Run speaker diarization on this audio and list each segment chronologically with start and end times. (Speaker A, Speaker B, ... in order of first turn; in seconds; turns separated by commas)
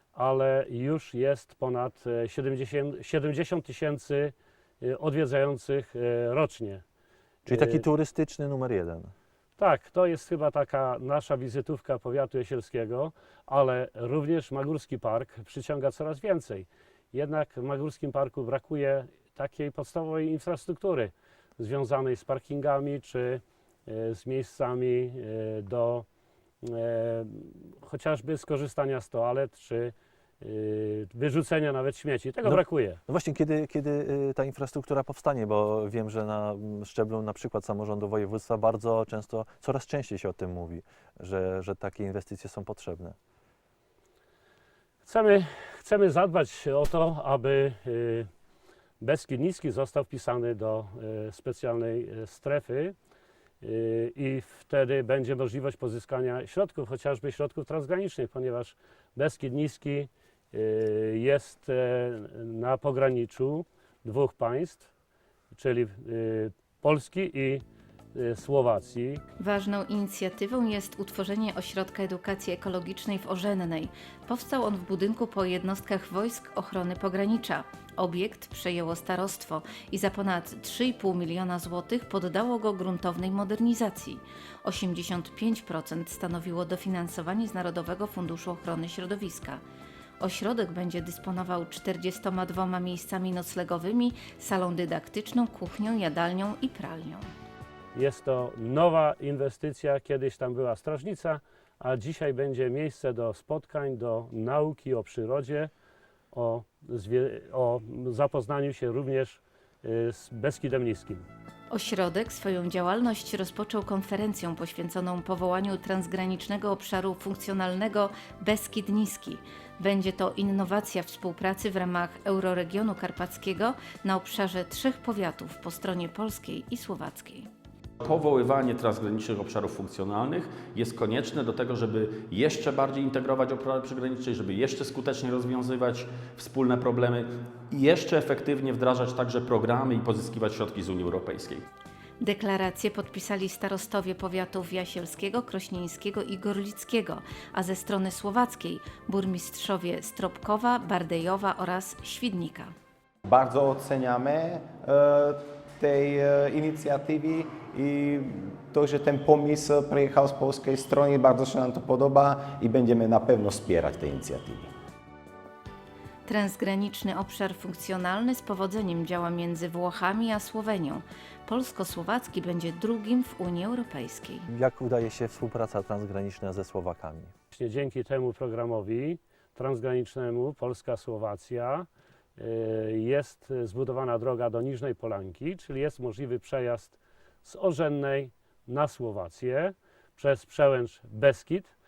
Speaker A: 0.1-6.8, Speaker B: 7.5-9.1, Speaker A: 7.5-7.8, Speaker A: 9.6-26.1, Speaker A: 26.6-33.0, Speaker B: 32.5-43.2, Speaker A: 45.1-48.3, Speaker A: 49.0-53.0, Speaker A: 53.6-64.9, Speaker A: 65.5-69.2, Speaker C: 69.4-89.6, Speaker C: 90.2-97.3, Speaker A: 97.9-105.7, Speaker A: 106.3-111.2, Speaker C: 111.7-127.5, Speaker D: 128.0-141.6, Speaker C: 142.2-152.7, Speaker E: 153.2-164.7, Speaker C: 166.3-174.5, Speaker B: 174.5-177.3, Speaker A: 177.5-191.7